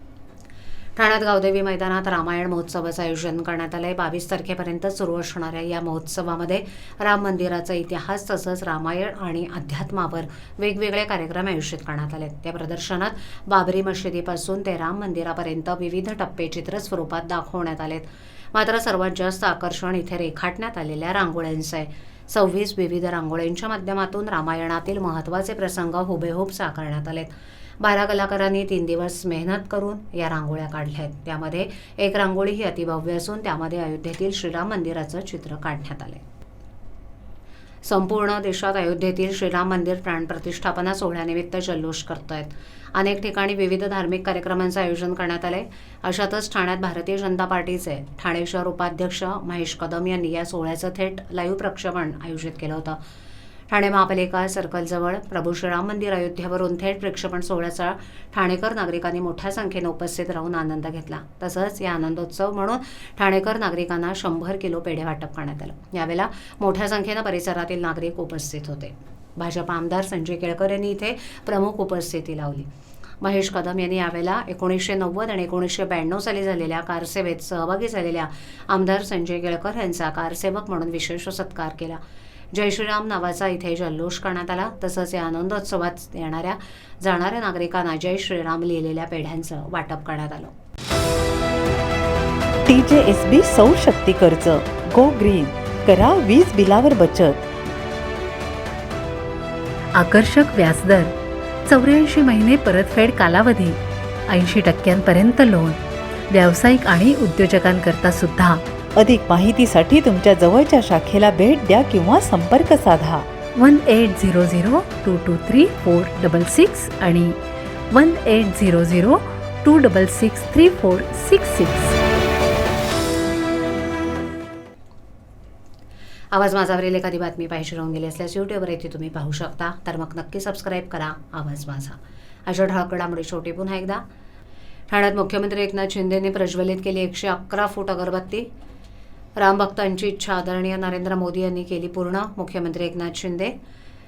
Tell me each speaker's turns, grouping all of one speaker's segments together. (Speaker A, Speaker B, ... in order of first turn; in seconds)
Speaker A: 1.0-36.2, 37.9-53.0, 53.7-72.7, 73.2-82.0, 82.5-90.5, 126.3-132.0, 132.5-134.0, 134.9-138.5, 139.4-143.6
Speaker B: 92.7-97.5, 109.0-113.3
Speaker C: 100.0-101.1, 101.7-103.7, 104.3-105.8, 106.3-108.6, 113.6-117.4, 117.9-121.8